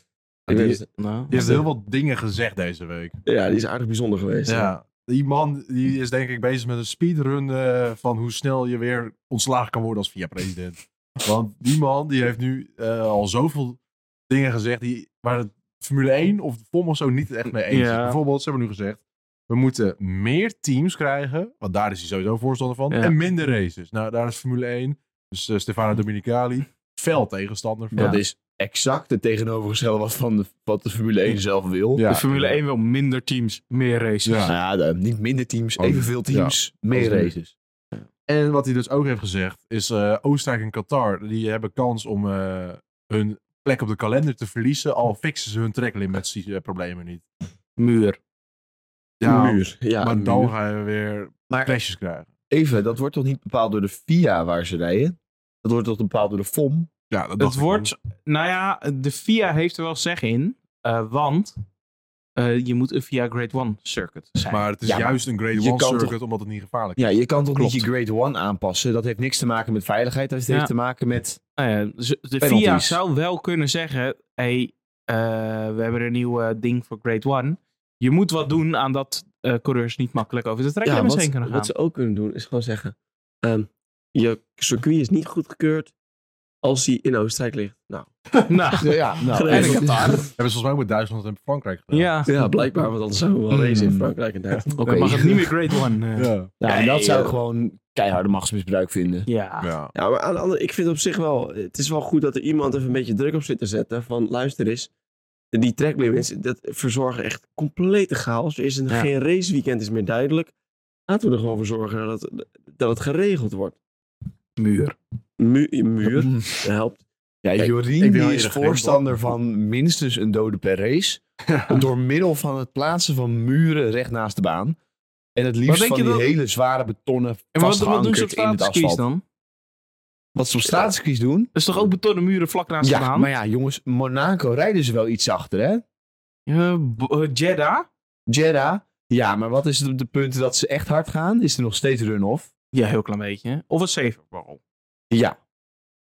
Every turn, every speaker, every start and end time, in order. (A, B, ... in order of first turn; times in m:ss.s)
0:00.5-0:01.6 A
0:00.5-0:03.2 B
0:01.0-0:01.3 C
0:03.2-0:04.7 A
0:04.5-0:28.2 B
0:17.6-0:18.2 C
0:27.9-0:32.0 D
0:31.9-0:32.6 B
0:32.1-0:34.5 C
0:34.2-0:34.5 B
0:34.5-0:37.5 D
0:35.8-0:37.3 B
0:38.3-0:47.2 B
0:47.8-0:48.2 C
0:49.2-0:52.3 B
0:49.2-0:50.5 A
0:51.5-0:51.7 D
0:52.5-0:56.9 D
0:57.1-0:57.9 B
0:57.4-1:01.5 C
1:02.4-1:04.7 C
1:04.5-1:07.9 B
1:04.8-1:06.1 D
1:07.0-1:11.4 D
1:11.6-1:21.7 C
1:12.4-1:13.0 D
1:20.8-1:25.9 A
1:26.6-1:28.1 A
1:28.5-1:30.2 C
1:28.8-1:30.2 D
1:29.3-1:30.3 A
1:30.4-1:32.1 B
1:31.9-1:32.3 C
1:32.2-1:34.8 A
1:33.6-1:34.1 D
1:34.7-1:35.3 D
1:34.8-1:37.3 C
1:36.2-1:36.5 B
1:36.6-1:39.3 D
1:39.3-1:39.7 C
1:39.6-1:39.9 B
1:39.9-1:44.9 A
1:45.5-1:50.5 A
1:51.1-1:53.8 A
1:54.6-1:55.0 C
1:55.4-1:57.0 A
1:56.0-1:56.6 D
1:57.4-2:04.8 D
1:58.0-1:59.0 B
2:01.5-2:01.8 B
2:05.4-2:09.0 D
2:05.7-2:06.3 C
2:07.5-2:09.2 C
2:10.3-2:11.5 D
2:11.5-2:13.3 C
2:12.8-2:15.8 D
2:16.5-2:17.9 C
2:18.3-2:22.5 D
2:22.7-2:24.6 C
2:25.1-2:25.4 D